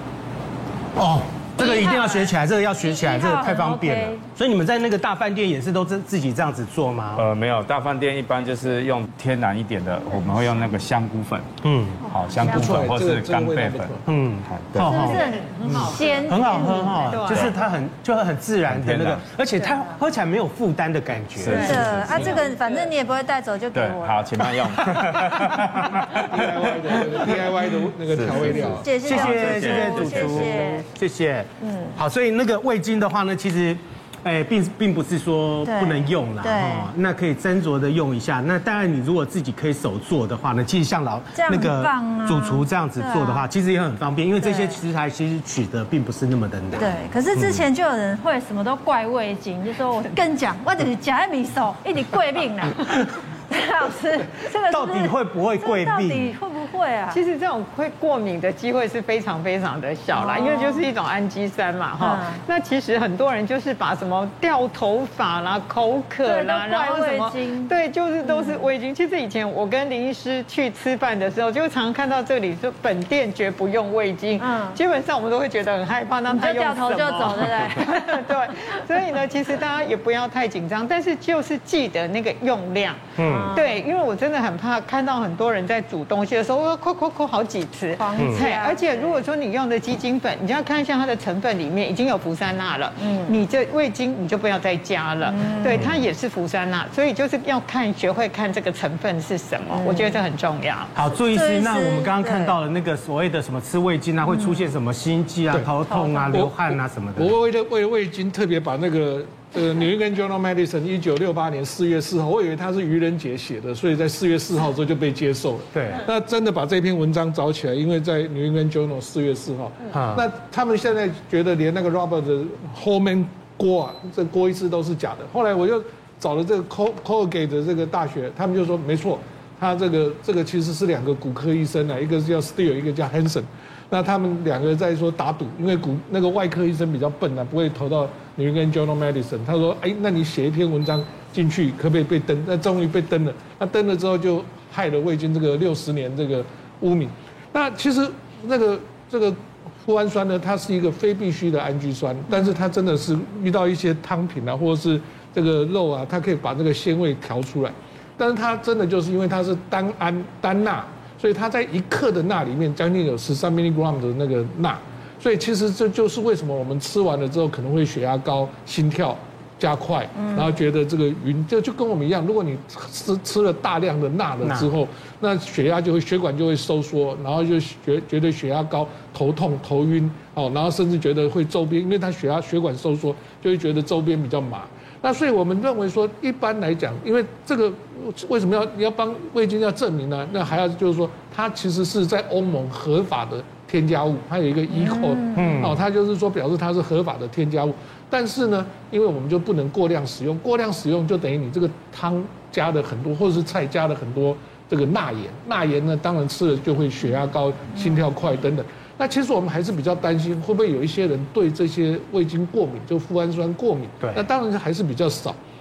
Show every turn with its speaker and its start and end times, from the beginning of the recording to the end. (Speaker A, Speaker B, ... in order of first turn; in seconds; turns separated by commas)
Speaker A: 1.0-7.2, Speaker B: 1.6-4.2, Speaker C: 7.2-11.5, Speaker A: 11.6-12.0, Speaker C: 12.1-15.0, Speaker D: 12.9-14.1, Speaker A: 14.1-21.9, Speaker B: 14.8-17.3, Speaker E: 14.9-17.6, Speaker C: 17.3-17.6, Speaker C: 18.7-19.3, Speaker B: 19.6-20.0, Speaker C: 21.4-22.3, Speaker B: 21.4-24.2, Speaker E: 21.5-22.9, Speaker C: 23.7-27.1, Speaker D: 26.4-28.9, Speaker A: 27.1-27.9, Speaker C: 28.1-30.6, Speaker B: 28.3-30.9, Speaker A: 29.0-47.5, Speaker B: 31.6-32.0, Speaker B: 35.6-36.9, Speaker B: 41.4-43.5, Speaker B: 44.4-44.8, Speaker B: 46.8-57.2, Speaker A: 54.7-56.3, Speaker E: 57.1-100.9, Speaker B: 60.1-60.9, Speaker B: 62.0-62.4, Speaker B: 66.2-68.7, Speaker B: 74.4-74.8, Speaker B: 76.3-78.3, Speaker A: 83.2-83.5, Speaker B: 83.2-83.8, Speaker B: 88.0-89.2, Speaker A: 88.2-88.4, Speaker B: 93.0-93.4, Speaker B: 95.2-95.8, Speaker A: 95.7-96.0, Speaker B: 99.7-100.2, Speaker A: 101.0-107.3, Speaker B: 101.1-102.6, Speaker B: 104.3-104.6, Speaker B: 105.9-106.4, Speaker D: 107.2-195.3, Speaker A: 115.7-116.1, Speaker A: 119.9-120.3, Speaker B: 170.2-170.5, Speaker A: 174.4-174.7, Speaker B: 194.7-195.6, Speaker A: 195.3-195.8, Speaker D: 195.8-215.4, Speaker A: 214.0-214.3